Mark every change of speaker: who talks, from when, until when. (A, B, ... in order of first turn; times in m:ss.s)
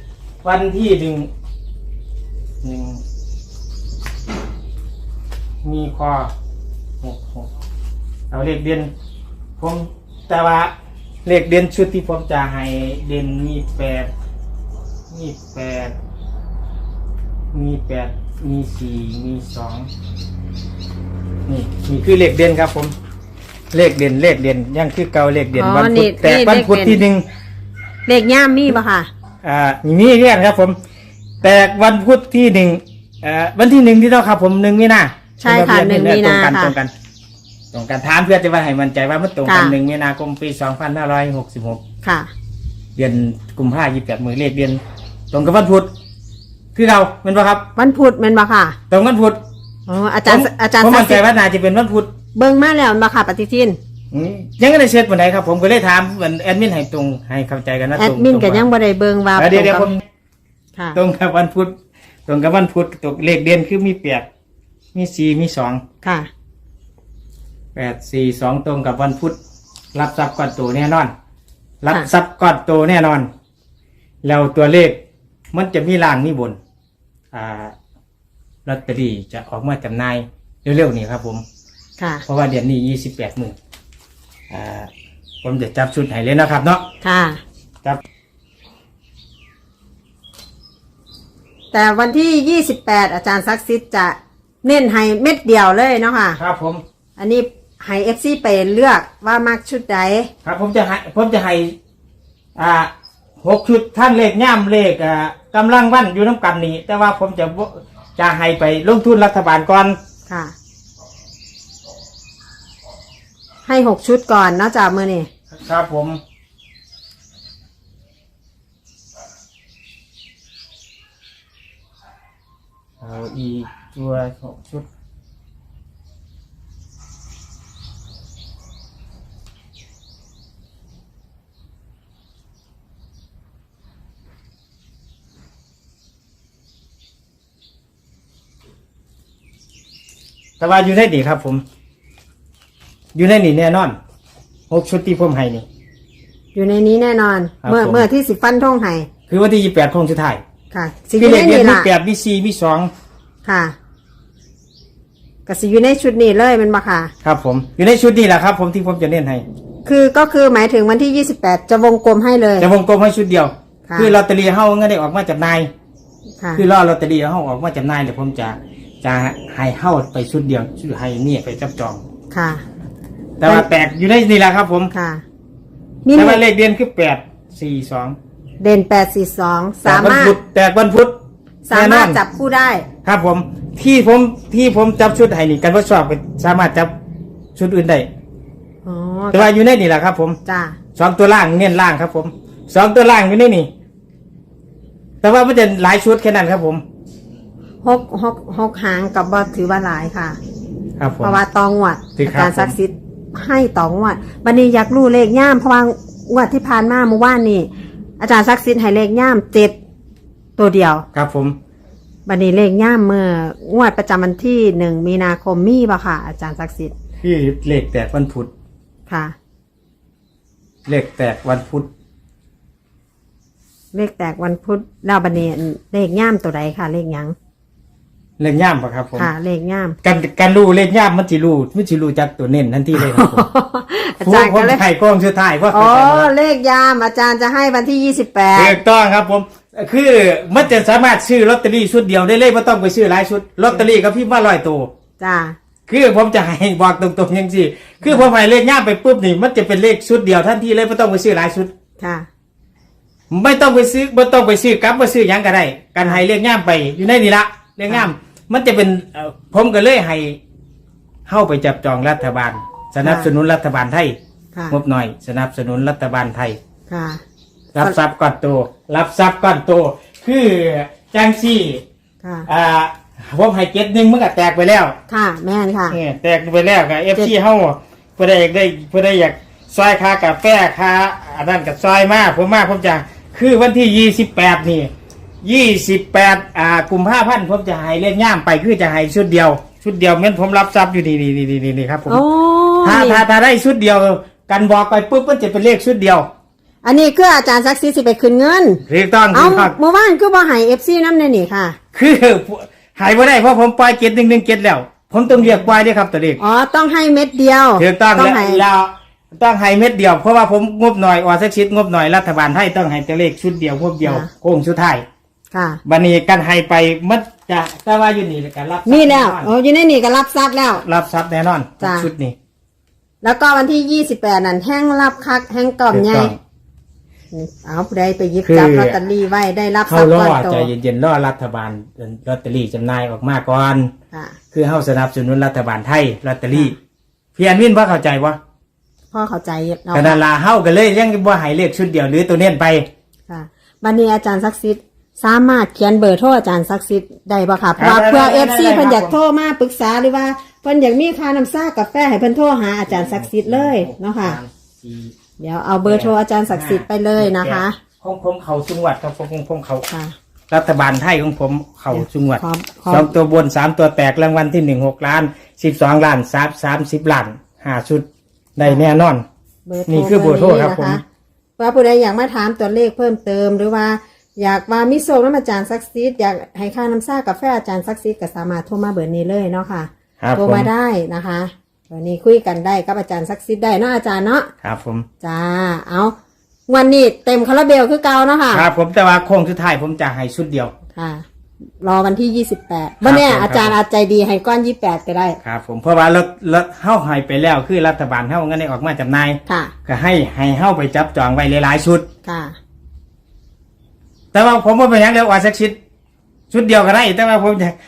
0:00.4-0:01.3 A
0:02.6-0:03.0 A
0:05.6-0:06.3 A
0:07.0-0:07.5 A
0:08.3-0:08.9 A
0:09.6-0:10.7 A
0:11.2-0:14.1 A
0:15.1-0:15.9 A
0:17.5-0:19.9 A
0:21.5-0:22.9 A
0:23.7-0:27.2 A
0:25.6-0:27.0 B
0:28.1-0:29.1 B
0:29.4-0:30.8 A
0:31.4-0:36.9 A
0:35.4-0:36.8 B
0:37.7-0:41.8 A
0:39.4-0:39.8 B
0:42.0-0:42.3 B
0:43.0-0:44.8 A
0:45.3-0:45.9 A
0:46.8-0:47.7 A
0:47.8-0:48.8 B
0:48.9-0:49.4 A
0:49.9-0:51.2 B
0:50.3-0:52.1 A
0:52.3-0:53.8 B
0:54.1-0:58.6 A
0:58.0-0:59.9 B
0:59.4-1:00.0 A
1:00.8-1:01.0 B
1:01.0-1:01.7 A
1:02.3-1:04.3 A
1:04.9-1:05.8 A
1:06.0-1:06.3 B
1:07.8-1:09.4 A
1:09.9-1:11.1 A
1:11.8-1:13.3 A
1:14.2-1:15.0 A
1:15.5-1:16.6 A
1:17.3-1:17.7 A
1:18.7-1:21.4 A
1:22.0-1:22.2 B
1:22.3-1:23.6 A
1:24.5-1:24.9 A
1:25.4-1:26.8 A
1:27.0-1:27.4 B
1:31.7-1:36.4 B
1:36.4-1:36.8 A
1:37.2-1:40.3 B
1:40.4-1:41.8 A
1:42.6-1:42.9 A
1:43.4-1:50.0 A
1:50.3-1:50.5 B
1:53.6-1:55.3 B
1:55.5-1:56.2 A
2:03.0-2:04.9 A
2:20.6-2:21.6 A
2:23.2-2:24.0 A
2:24.7-2:25.6 A
2:26.5-2:29.1 B
2:27.6-2:28.1 A
2:29.3-2:30.4 A
2:30.7-2:31.9 B
2:31.2-2:32.9 A
2:33.4-2:33.8 B
2:35.5-2:37.1 B
2:37.2-2:39.4 A
2:39.8-2:42.7 B
2:42.6-2:45.7 A
2:43.9-2:44.2 B
2:46.6-2:52.0 A
2:52.3-2:52.6 B
2:53.4-2:54.9 A
2:54.9-2:55.2 B
2:56.0-2:56.4 B
2:56.2-2:58.2 A
2:58.6-3:00.4 B
2:59.8-3:01.2 A
3:01.7-3:02.9 B
3:01.7-3:02.2 A
3:03.0-3:06.9 A
3:07.6-3:08.1 A
3:08.8-3:09.5 B
3:09.3-3:10.4 A
3:10.4-3:10.8 B
3:11.0-3:13.7 A
3:15.2-3:16.8 A
3:17.8-3:20.4 B
3:21.0-3:21.4 A
3:21.2-3:29.8 B
3:22.2-3:22.8 A
3:30.6-3:31.1 B
3:31.1-3:31.6 A
3:32.3-3:36.9 B
3:37.2-3:38.5 A
3:39.1-3:39.4 B
3:40.9-3:41.9 A
3:43.9-3:47.4 B
3:48.4-3:49.3 A
3:49.2-3:50.0 B
3:50.0-3:53.5 A
3:53.0-3:54.8 B
3:54.2-3:56.3 A
3:55.7-3:58.8 B
3:58.5-4:04.9 A
4:05.2-4:05.6 B
4:05.9-4:11.7 A
4:12.0-4:12.3 B
4:13.3-4:20.4 A
4:21.3-4:24.2 A
4:23.0-4:23.3 B
4:24.7-4:26.6 A
4:26.9-4:27.2 B
4:27.7-4:31.8 A
4:32.2-4:32.5 B
4:32.5-4:35.0 A
4:35.1-4:36.0 B
4:35.9-4:44.9 A
4:45.4-4:52.2 A
4:52.1-4:53.2 B
4:52.8-4:56.3 A
4:56.8-5:01.8 B
4:58.9-4:59.7 A
5:01.9-5:06.4 A
5:06.4-5:08.6 B
5:07.8-5:15.0 A
5:14.0-5:14.3 B
5:15.5-5:15.8 B
5:15.8-5:19.5 A
5:18.9-5:20.8 B
5:20.8-5:22.4 A
5:21.8-5:22.1 B
5:23.2-5:26.3 B
5:25.9-5:26.4 A
5:27.3-5:30.7 B
5:28.4-5:29.0 A
5:29.9-5:33.9 A
5:34.1-5:34.4 B
5:34.5-5:36.8 A
5:37.4-5:38.4 A
5:39.1-5:40.2 B
5:39.9-5:42.9 A
5:43.3-5:54.4 B
5:47.8-5:49.2 A
5:52.9-5:55.1 A
5:55.4-5:57.8 B
5:55.8-5:59.9 A
5:59.9-6:00.1 B
6:00.5-6:09.2 A
6:01.9-6:03.1 B
6:09.7-6:11.0 B
6:09.9-6:11.0 A
6:11.6-6:24.5 B
6:20.2-6:20.7 A
6:24.6-6:25.1 A
6:25.2-6:26.2 B
6:26.7-6:28.7 B
6:28.5-6:30.7 A
6:31.0-6:31.2 B
6:31.8-6:35.4 B
6:33.0-6:33.8 A
6:35.4-6:42.1 A
6:39.5-6:39.7 B
6:42.2-6:42.6 B
6:44.3-6:45.8 A
6:46.5-6:47.8 A